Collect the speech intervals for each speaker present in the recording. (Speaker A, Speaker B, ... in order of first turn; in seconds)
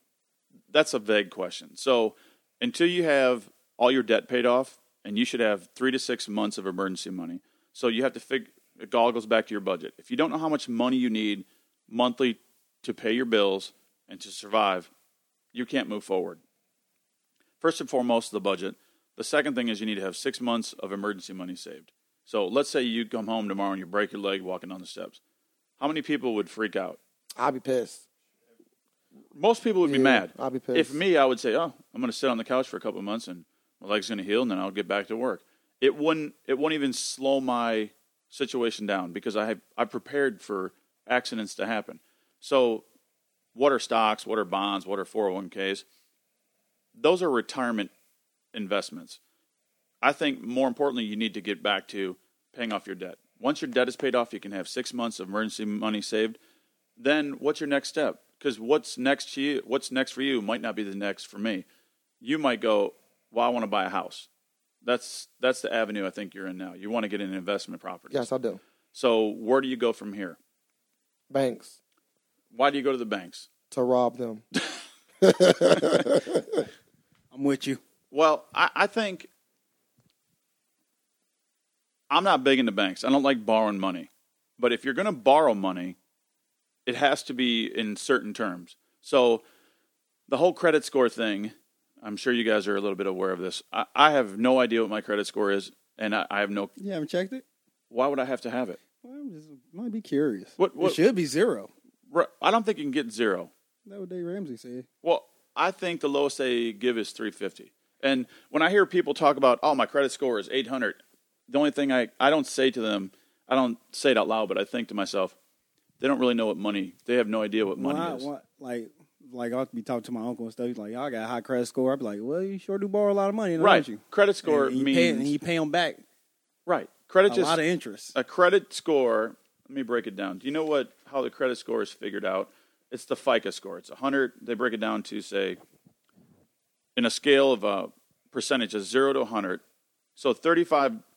Speaker A: 0.7-14.9, 15.5-16.4, 17.6-25.2, 25.8-27.0, 29.3-42.8, 43.5-45.8, 47.0-47.9, 48.5-49.2, 50.0-56.4, 57.0-61.6, 62.2-64.3, 64.8-68.2, 68.9-70.4, 72.5-73.5, 78.1-79.3, 82.1-86.0, 86.8-89.4, 90.3-96.7, 97.9-98.8, 100.6-101.0, 102.1-103.5, 105.0-115.3, 116.0-118.3, 123.6-125.3, 126.7-127.6, 128.1-135.6, 136.9-139.6, 140.2-141.0
Speaker B: 27.4-28.0, 29.8-31.0, 68.1-68.6, 71.3-71.8, 73.7-74.4, 75.2-76.7
Speaker C: 77.3-77.8, 96.8-97.4, 99.0-101.7, 103.8-104.9, 117.8-126.0, 127.3-128.1